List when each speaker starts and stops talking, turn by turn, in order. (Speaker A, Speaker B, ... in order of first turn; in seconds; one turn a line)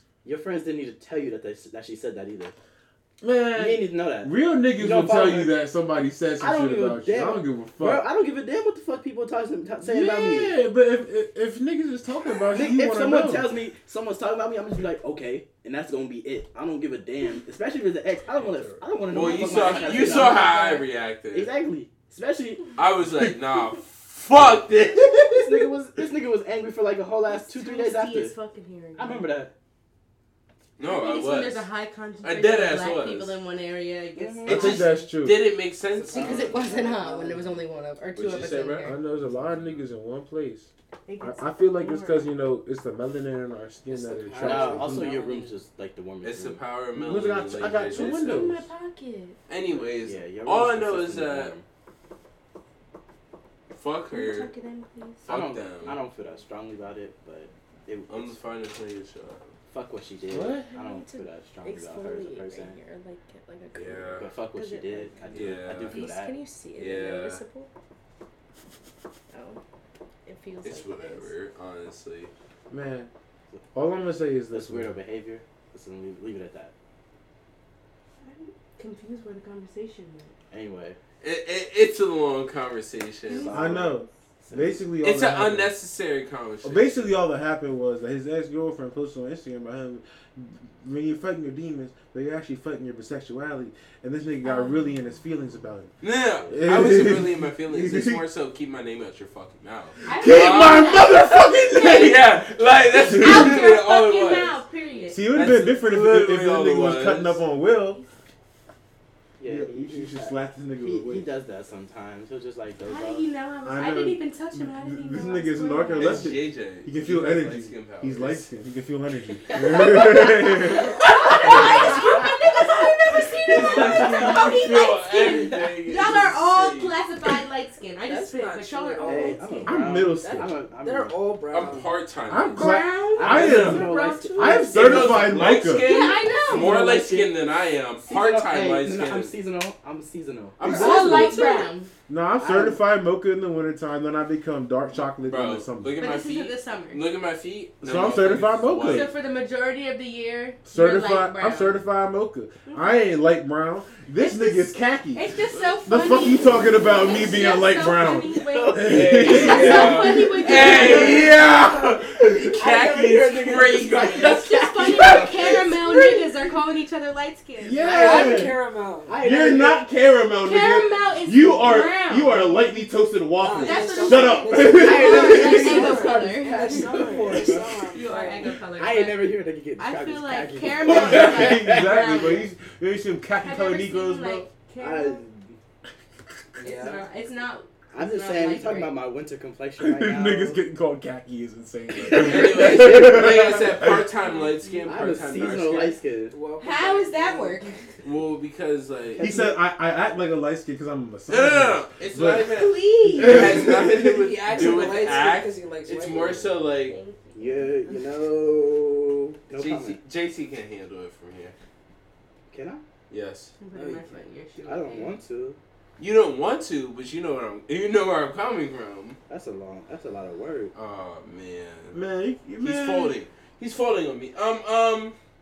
Speaker A: 0.2-2.5
Speaker B: 3.2-8.1
Speaker A: 3.5-5.5
Speaker A: 6.4-10.6
Speaker B: 9.8-13.5
Speaker A: 12.5-20.8
Speaker C: 19.1-21.5
Speaker D: 19.1-20.9
Speaker A: 21.3-22.8
Speaker C: 22.8-25.6
Speaker A: 25.2-28.3
Speaker D: 27.3-29.3
Speaker A: 29.0-29.5
Speaker C: 30.8-31.7
Speaker D: 30.8-35.0
Speaker C: 32.2-33.4
Speaker A: 34.1-34.8
Speaker B: 34.5-35.5
Speaker C: 34.5-36.6
Speaker E: 35.9-36.7
Speaker D: 36.1-39.0
Speaker A: 36.1-37.6
Speaker C: 38.1-39.9
Speaker B: 38.8-45.1
Speaker D: 41.1-42.3
Speaker E: 43.9-45.1
Speaker A: 44.4-46.6
Speaker D: 44.4-45.5
Speaker C: 46.2-48.6
Speaker B: 46.9-48.7
Speaker D: 47.9-49.4
Speaker C: 49.5-51.5
Speaker A: 49.6-51.6
Speaker C: 53.7-54.5
Speaker D: 54.1-55.2
Speaker C: 55.2-56.0
Speaker A: 55.2-58.4
Speaker C: 58.1-59.5
Speaker A: 59.7-62.8
Speaker B: 60.3-60.7
Speaker D: 60.7-67.7
Speaker C: 63.7-64.3
Speaker A: 64.1-66.3
Speaker C: 65.3-66.1
Speaker C: 66.8-67.4
Speaker D: 69.3-69.6
Speaker D: 70.2-71.3
Speaker C: 70.6-72.3
Speaker B: 72.7-73.1
Speaker B: 73.7-74.9
Speaker A: 74.5-76.7
Speaker D: 78.2-80.3
Speaker A: 80.5-81.0
Speaker C: 81.2-83.6
Speaker D: 83.3-84.1
Speaker A: 83.3-84.9
Speaker B: 83.5-85.8
Speaker C: 85.0-87.2
Speaker B: 86.6-95.9
Speaker D: 94.4-94.9
Speaker C: 96.0-100.9
Speaker B: 96.5-98.2
Speaker D: 100.0-102.2
Speaker B: 100.2-102.4
Speaker C: 101.7-104.6
Speaker B: 102.9-103.7
Speaker D: 103.0-105.2
Speaker B: 105.1-108.0
Speaker C: 105.3-107.4
Speaker D: 107.6-108.1
Speaker A: 109.4-113.2
Speaker B: 109.4-111.3
Speaker D: 112.8-116.3
Speaker B: 113.6-120.9
Speaker C: 116.0-118.5
Speaker A: 119.5-120.1
Speaker D: 120.4-129.8
Speaker C: 121.3-121.8
Speaker A: 121.4-122.2
Speaker B: 121.5-122.0
Speaker A: 123.5-124.7
Speaker C: 123.6-127.0
Speaker A: 125.3-125.8
Speaker E: 128.1-129.6
Speaker A: 129.0-131.2
Speaker B: 129.6-130.5
Speaker E: 130.2-132.0
Speaker C: 131.5-133.8
Speaker B: 132.3-135.9
Speaker D: 132.4-135.1
Speaker A: 133.2-135.4
Speaker C: 134.7-139.3
Speaker D: 135.7-136.8
Speaker A: 136.5-137.4
Speaker A: 138.1-140.6
Speaker C: 140.6-141.6
Speaker D: 140.6-141.9
Speaker B: 140.6-145.9
Speaker A: 142.4-142.8
Speaker C: 145.2-149.1
Speaker D: 146.0-147.0
Speaker B: 147.8-149.1
Speaker D: 148.8-151.8
Speaker B: 150.6-155.3
Speaker D: 152.7-153.1
Speaker D: 154.1-161.3
Speaker C: 155.5-156.0
Speaker B: 155.8-160.0
Speaker A: 156.9-166.3
Speaker C: 158.8-165.5
Speaker B: 162.0-162.6
Speaker D: 163.3-168.3
Speaker B: 167.6-168.6
Speaker A: 167.8-169.8
Speaker E: 167.8-169.2
Speaker B: 169.2-175.8
Speaker D: 170.4-172.5
Speaker E: 173.4-178.5
Speaker D: 173.5-182.5
Speaker A: 174.7-177.8
Speaker A: 178.6-182.4
Speaker B: 180.8-184.5
Speaker D: 183.4-185.2
Speaker A: 184.8-185.6
Speaker E: 186.6-187.0
Speaker D: 186.6-189.0
Speaker A: 187.9-190.6
Speaker B: 189.8-194.0
Speaker A: 191.9-193.7
Speaker C: 192.1-195.9
Speaker D: 194.2-195.1
Speaker A: 194.8-196.3
Speaker E: 196.3-197.7
Speaker D: 196.6-197.8
Speaker C: 198.0-199.2
Speaker A: 199.2-199.5
Speaker B: 199.2-202.5
Speaker C: 201.3-206.9
Speaker D: 202.5-203.6
Speaker B: 203.1-204.6
Speaker E: 204.0-206.6
Speaker D: 206.8-207.7
Speaker A: 207.3-210.0
Speaker C: 209.5-211.5
Speaker A: 212.5-212.8
Speaker C: 213.1-213.5
Speaker D: 213.6-215.1
Speaker E: 213.7-214.1
Speaker A: 214.6-215.6
Speaker C: 216.0-219.2
Speaker A: 219.3-220.7
Speaker C: 220.7-222.0
Speaker B: 221.9-223.2
Speaker C: 222.6-225.2